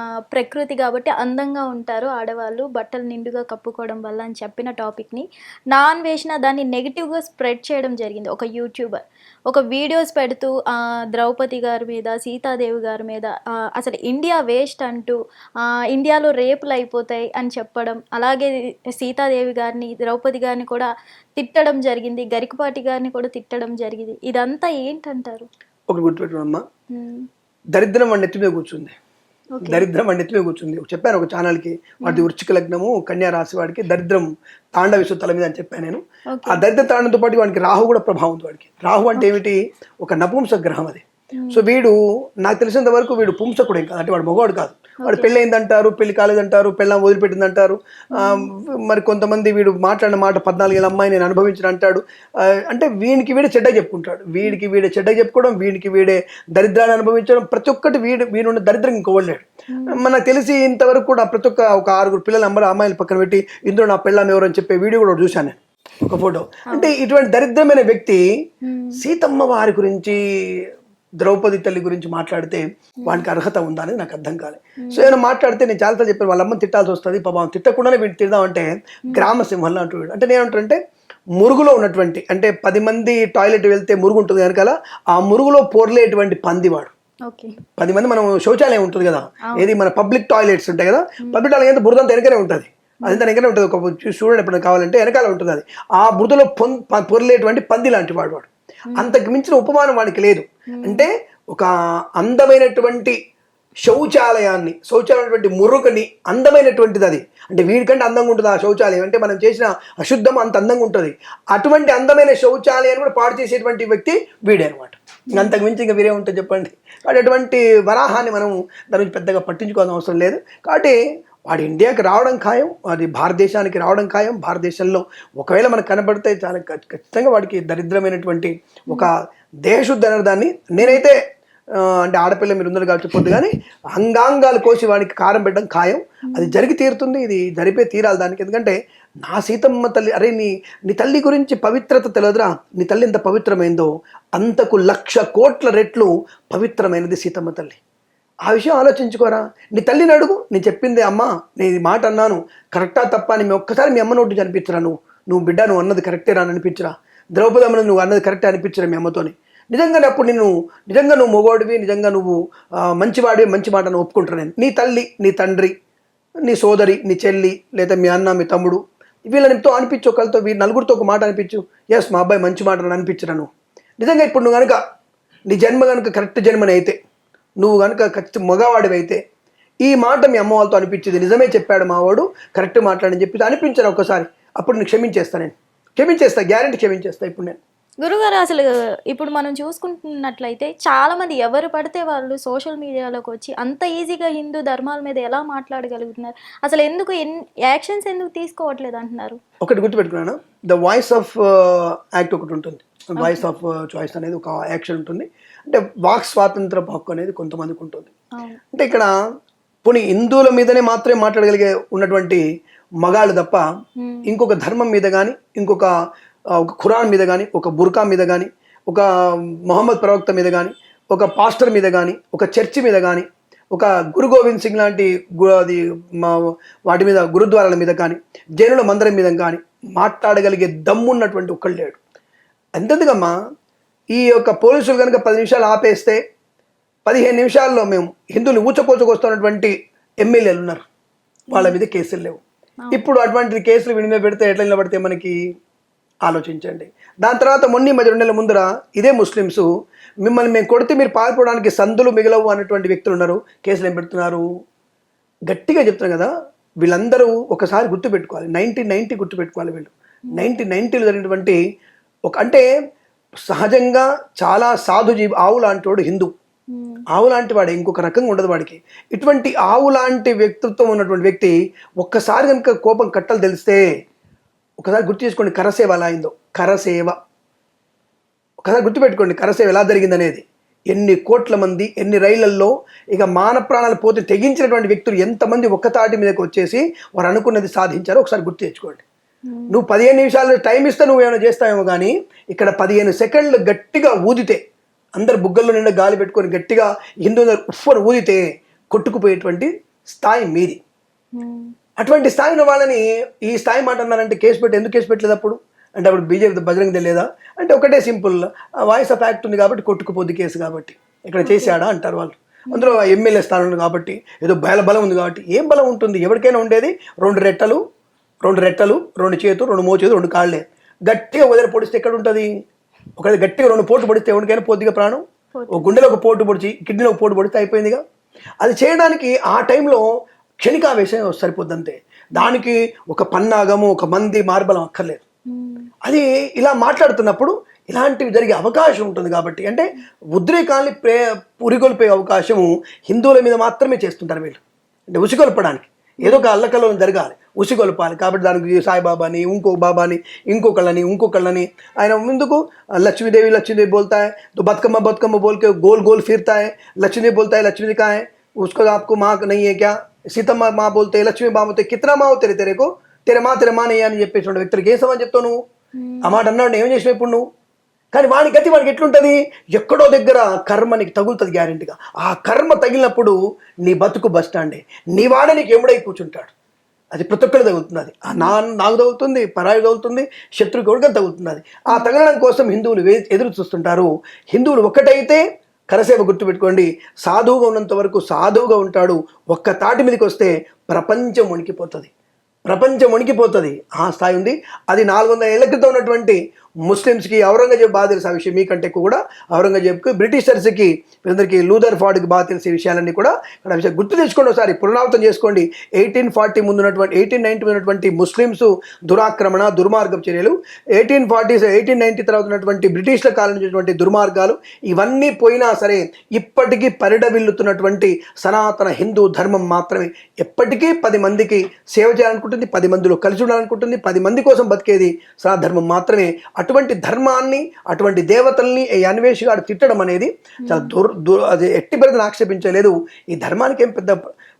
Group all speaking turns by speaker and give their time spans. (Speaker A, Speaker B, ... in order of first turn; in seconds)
Speaker A: 0.3-15.2, 15.9-25.5, 26.9-27.3, 29.5-29.9, 36.3-36.6, 41.4-41.6, 45.0-45.3, 48.1-48.5, 59.7-60.0, 68.6-69.0, 74.8-75.1, 87.3-87.6, 98.9-99.2, 100.7-101.1, 115.3-115.6, 136.3-136.6, 188.0-199.4, 214.0-214.3, 266.7-267.0, 289.5-289.8, 301.3-301.7, 311.4-311.8, 312.7-313.0, 325.5-325.9, 335.5-335.9, 346.2-346.5, 366.0-366.4, 378.3-378.6, 430.6-430.9
Speaker B: 25.9-26.6, 27.7-28.9, 29.6-68.2, 69.0-70.7, 71.2-80.8, 81.4-86.9, 87.8-103.2, 103.8-129.1, 129.6-131.2, 131.8-147.8, 148.4-165.7, 166.4-174.8, 175.5-176.9, 177.6-179.2, 179.8-187.6, 199.6-208.1, 208.7-209.1, 209.8-212.4, 213.0-213.6, 214.2-215.9, 216.6-232.0, 232.8-233.3, 234.1-236.2, 237.1-240.8, 241.5-242.4, 242.9-245.4, 246.2-249.7, 250.2-254.4, 255.5-256.3, 256.8-261.6, 262.3-262.6, 263.5-266.3, 267.1-273.8, 274.8-277.1, 278.6-289.0, 289.7-294.6, 295.1-300.8, 302.0-317.8, 318.4-322.5, 323.2-328.0, 328.6-330.0, 330.6-335.2, 336.0-365.6, 366.2-367.4, 368.1-376.5, 377.1-392.1, 392.7-434.2